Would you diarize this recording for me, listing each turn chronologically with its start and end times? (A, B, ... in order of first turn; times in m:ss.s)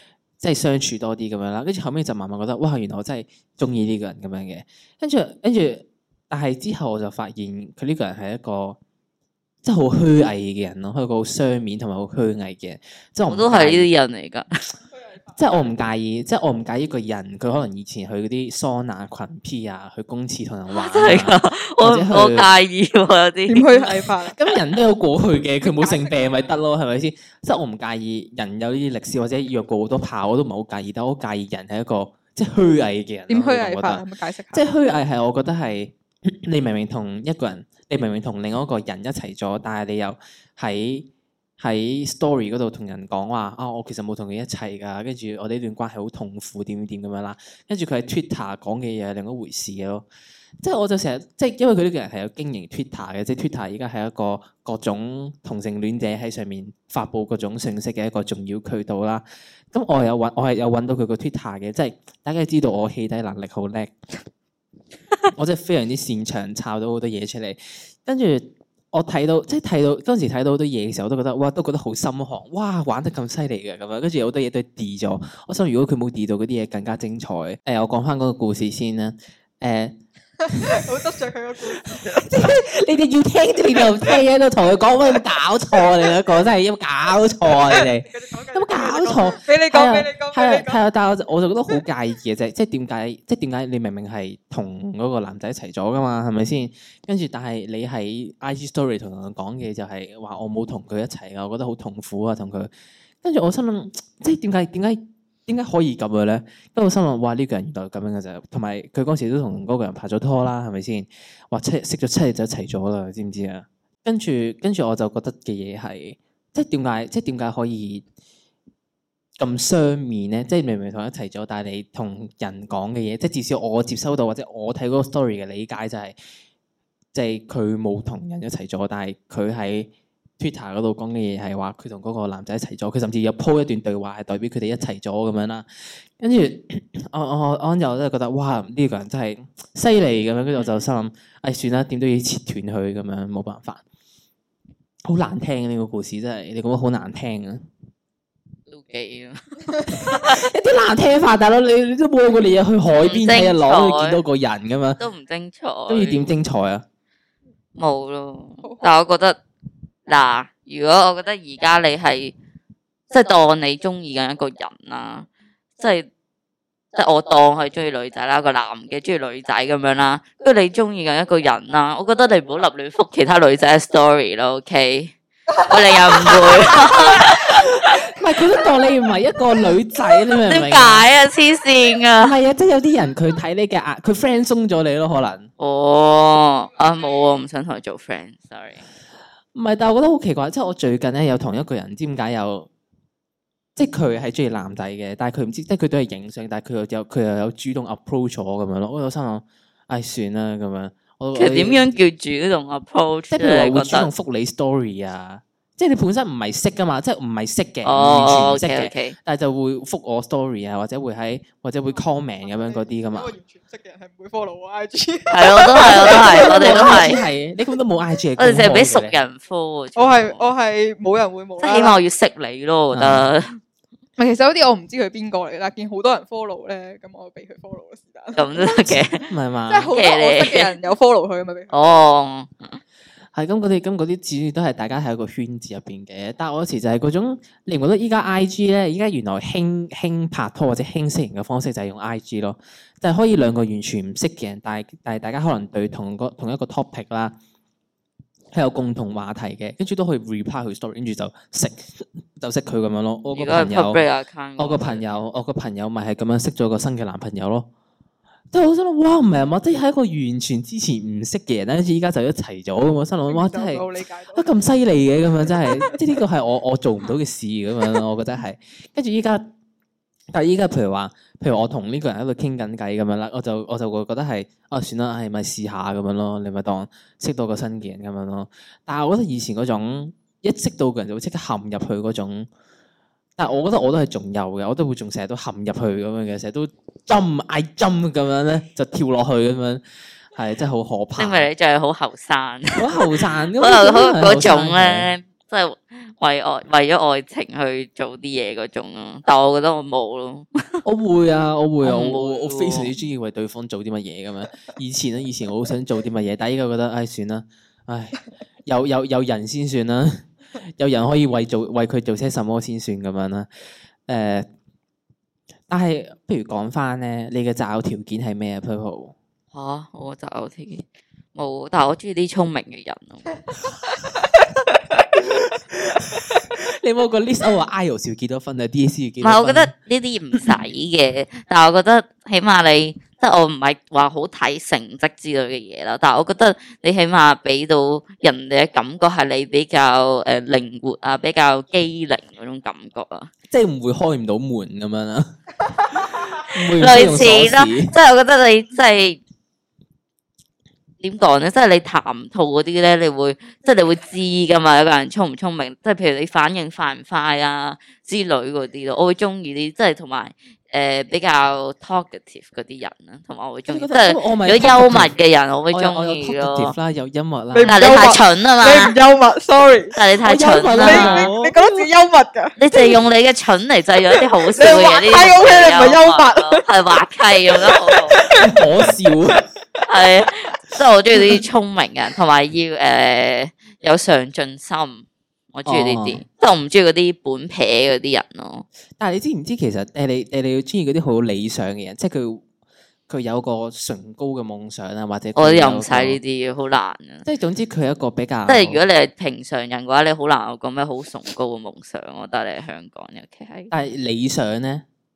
0:00.4-0:08.8 A
0:09.6-0:13.9 A
0:13.3-0:14.5 B
0:15.4-0:22.5 A
0:20.7-0:24.0 B
0:23.5-0:24.4 C
0:24.3-0:50.0 A
0:25.6-0:26.4 C
0:33.3-0:34.6 C
0:50.6-1:03.9 A
1:05.3-1:20.0 A
1:20.4-1:22.6 C
1:20.5-1:20.8 A
1:22.2-1:42.7 A
1:23.8-1:24.1 C
1:27.5-1:30.8 C
1:43.2-1:58.0 A
1:59.4-2:06.2 A
2:07.1-2:23.8 A
2:25.1-2:27.7 A
2:28.7-2:30.4 B
2:29.9-2:35.0 A
2:33.0-2:34.2 B
2:35.0-2:36.3 B
2:35.9-2:36.8 A
2:37.8-2:39.4 B
2:40.1-2:42.3 B
2:43.1-2:46.1 B
2:46.9-2:55.1 B
2:55.6-2:57.2 C
2:55.6-2:57.9 B
2:57.8-3:01.1 A
3:00.4-3:02.4 B
3:02.2-3:05.5 A
3:05.6-3:08.8 B
3:09.5-3:12.7 A
3:13.8-3:21.8 A
3:21.3-3:24.1 B
3:23.3-3:33.3 A
3:27.8-3:29.2 B
3:32.4-3:37.2 C
3:35.3-3:37.2 B
3:35.8-3:39.1 A
3:38.4-3:40.5 B
3:40.0-3:42.0 C
3:41.6-3:43.6 B
3:42.9-3:43.3 A
3:44.2-3:49.0 C
3:48.3-3:49.3 B
3:49.3-3:49.9 A
3:49.7-3:52.0 C
3:49.9-3:50.7 B
3:51.7-3:52.8 B
3:53.3-4:07.3 A
4:08.5-4:14.0 A
4:13.3-4:15.0 B
4:14.6-4:17.7 A
4:18.5-4:29.5 A
4:23.3-4:24.5 C
4:25.6-4:26.0 C
4:30.3-4:42.5 A
4:43.4-4:49.8 A
4:50.3-4:51.5 A
4:51.2-5:00.8 B
4:52.8-4:55.1 A
5:00.8-5:13.5 A
5:01.8-5:02.9 B
5:14.1-5:14.5 A
5:15.7-5:19.1 A
5:19.5-5:23.3 B
5:25.2-5:29.7 A
5:29.2-5:43.3 B
5:43.5-5:47.9 A
5:46.8-5:49.2 B
5:51.0-6:06.7 B
6:03.7-6:05.1 A
6:05.7-6:07.9 A
6:07.5-6:10.0 C
6:07.6-6:08.9 B
6:10.0-6:11.3 B
6:10.2-6:11.9 A
6:10.8-6:13.0 C
6:12.6-6:18.2 B
6:14.1-6:16.6 C
6:17.6-6:18.6 C
6:18.3-6:19.4 A
6:19.9-6:28.6 B
6:25.6-6:26.2 A
6:29.0-6:32.4 A
6:33.1-6:36.2 A
6:35.4-6:37.2 B
6:37.2-6:38.8 A
6:38.5-6:43.7 B
6:43.7-6:44.8 A